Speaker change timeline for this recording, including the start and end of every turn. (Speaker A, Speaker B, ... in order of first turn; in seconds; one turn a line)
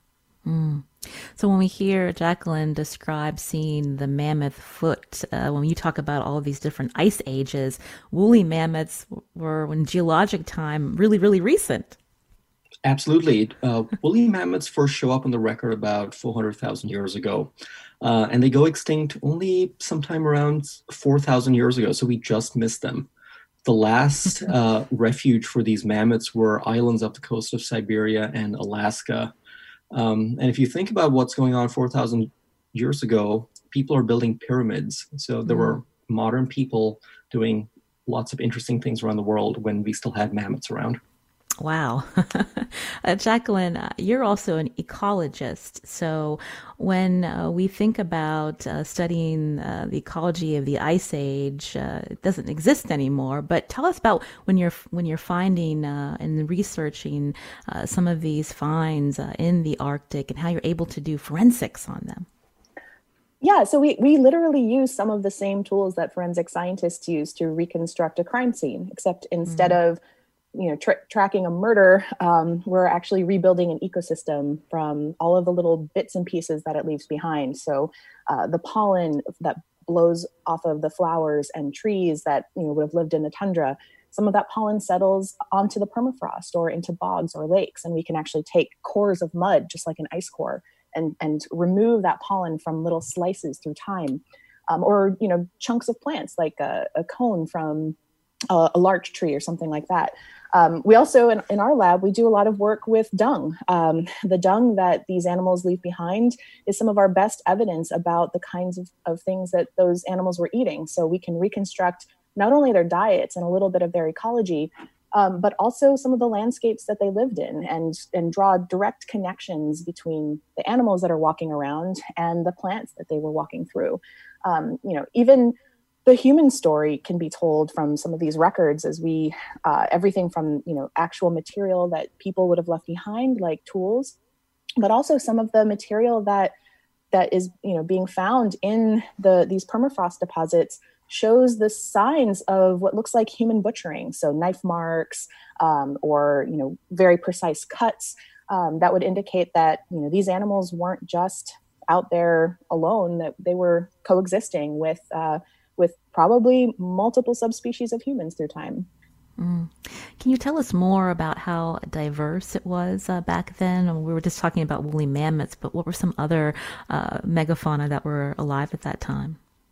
Speaker A: 0.5-12.0
Speaker B: 12.8-23.1
Speaker B: 23.6-29.3
Speaker B: 29.9-41.0
Speaker A: 35.5-35.8
Speaker A: 41.6-62.3
Speaker C: 63.4-70.0
Speaker A: 69.5-69.8
Speaker C: 70.5-98.0
Speaker C: 98.5-125.5
Speaker C: 126.1-134.2
Speaker C: 134.8-136.5
Speaker C: 137.1-158.9
Speaker A: 159.4-169.4